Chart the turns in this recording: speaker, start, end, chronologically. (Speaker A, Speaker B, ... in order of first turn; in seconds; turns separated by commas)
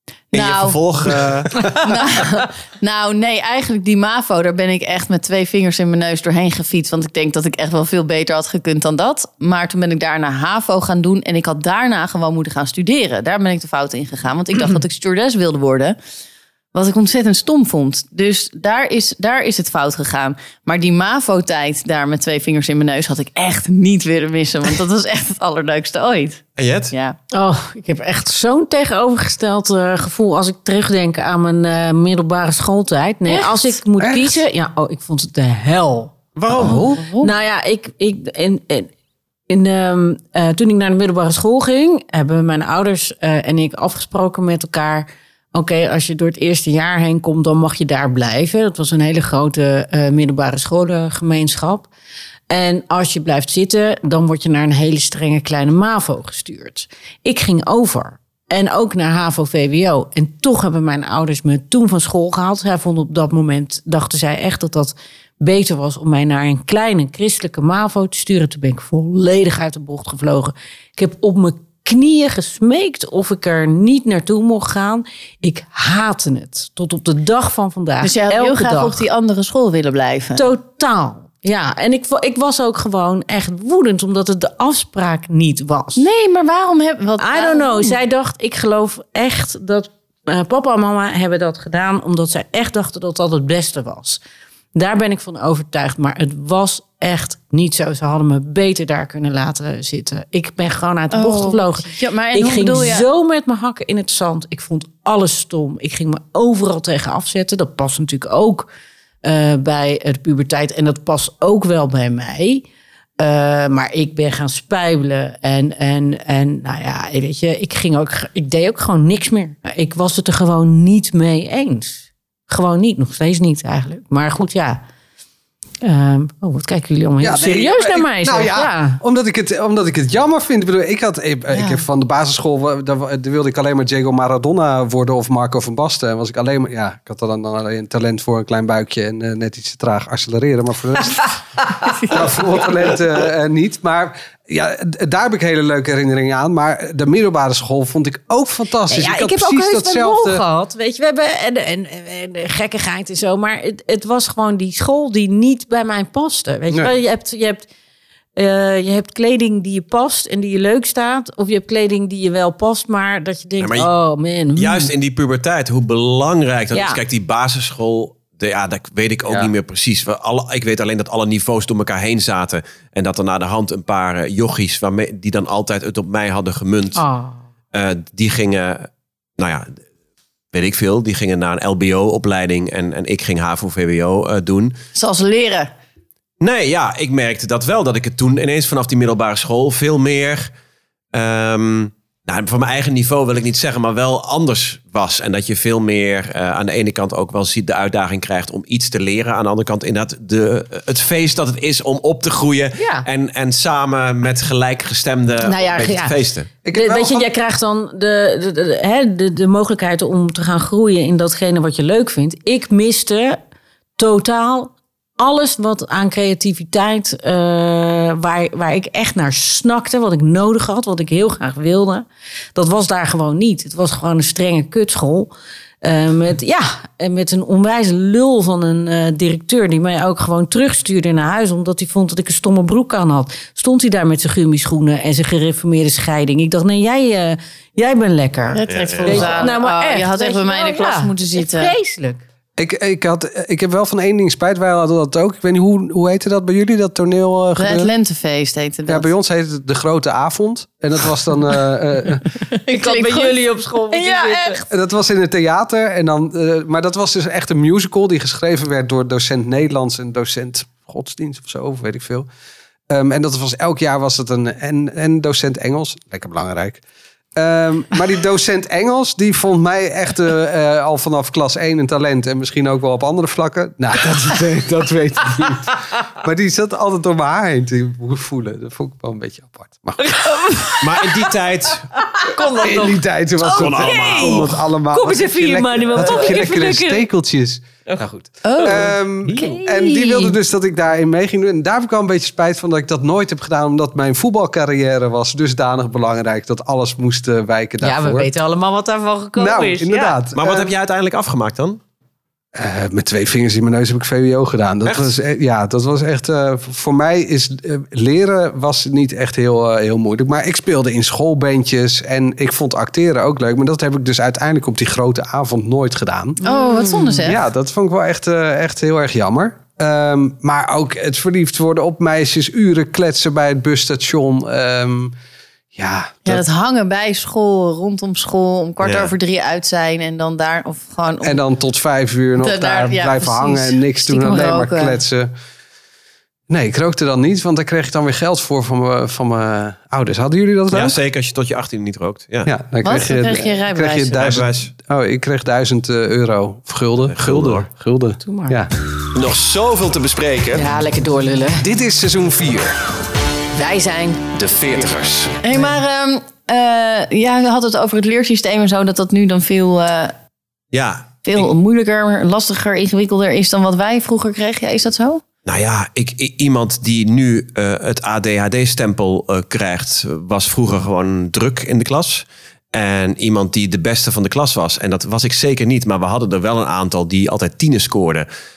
Speaker A: 0.3-1.9, Speaker B: 0.3-16.0, Speaker B: 16.7-27.2, Speaker A: 26.6-26.9, Speaker C: 27.3-38.9, Speaker B: 33.3-33.7, Speaker D: 34.0-34.4, Speaker A: 36.4-36.9, Speaker D: 36.5-37.0, Speaker B: 36.7-37.3, Speaker C: 39.5-51.9, Speaker C: 52.5-79.0, Speaker B: 78.0-80.4, Speaker C: 80.3-86.0, Speaker B: 86.0-88.0, Speaker C: 87.2-94.2, Speaker C: 94.7-108.7, Speaker B: 101.1-103.0, Speaker C: 109.2-112.6, Speaker C: 113.2-124.8, Speaker C: 125.8-129.0, Speaker D: 127.2-141.3, Speaker B: 131.5-131.8, Speaker B: 141.9-142.3, Speaker D: 142.1-150.4, Speaker C: 148.9-157.7, Speaker C: 158.3-164.9, Speaker A: 163.6-163.9, Speaker A: 164.6-177.0, Speaker C: 166.7-167.0, Speaker C: 177.0-177.4, Speaker A: 177.7-179.8, Speaker A: 180.5-184.7, Speaker B: 184.9-185.7, Speaker A: 186.4-190.5, Speaker A: 191.1-206.5, Speaker C: 202.8-203.1, Speaker C: 205.4-206.2, Speaker D: 206.6-207.3, Speaker C: 206.7-213.4, Speaker C: 214.0-225.3, Speaker C: 225.8-242.2, Speaker B: 238.5-241.7, Speaker A: 238.7-239.5, Speaker D: 242.6-247.9, Speaker B: 247.6-249.1, Speaker D: 248.9-252.3, Speaker B: 252.3-254.7, Speaker C: 252.7-254.6, Speaker D: 254.7-262.3, Speaker D: 262.9-266.8, Speaker D: 267.4-280.4, Speaker C: 280.0-281.2, Speaker A: 280.8-281.9, Speaker C: 281.9-287.0, Speaker D: 282.6-298.3, Speaker A: 283.4-284.6, Speaker B: 283.6-283.9, Speaker B: 288.4-288.9, Speaker C: 288.6-290.4, Speaker C: 297.8-300.1, Speaker D: 299.4-300.7, Speaker A: 300.3-301.8, Speaker D: 302.5-316.4, Speaker A: 304.8-305.1, Speaker C: 316.4-317.2, Speaker B: 316.4-317.4, Speaker D: 317.2-325.1, Speaker D: 325.7-326.4, Speaker B: 326.2-331.4, Speaker A: 328.8-329.1, Speaker D: 331.2-335.3, Speaker B: 332.4-335.0, Speaker D: 336.5-341.0, Speaker A: 340.7-342.5, Speaker D: 342.4-348.7, Speaker B: 342.8-344.2, Speaker A: 344.1-344.7, Speaker A: 347.1-347.6, Speaker C: 348.2-348.6, Speaker A: 349.1-350.6, Speaker C: 350.5-351.6, Speaker D: 351.6-352.8, Speaker C: 353.5-354.3, Speaker A: 354.4-355.4, Speaker B: 355.4-360.1, Speaker A: 360.7-361.5, Speaker B: 361.2-365.2, Speaker A: 365.4-378.3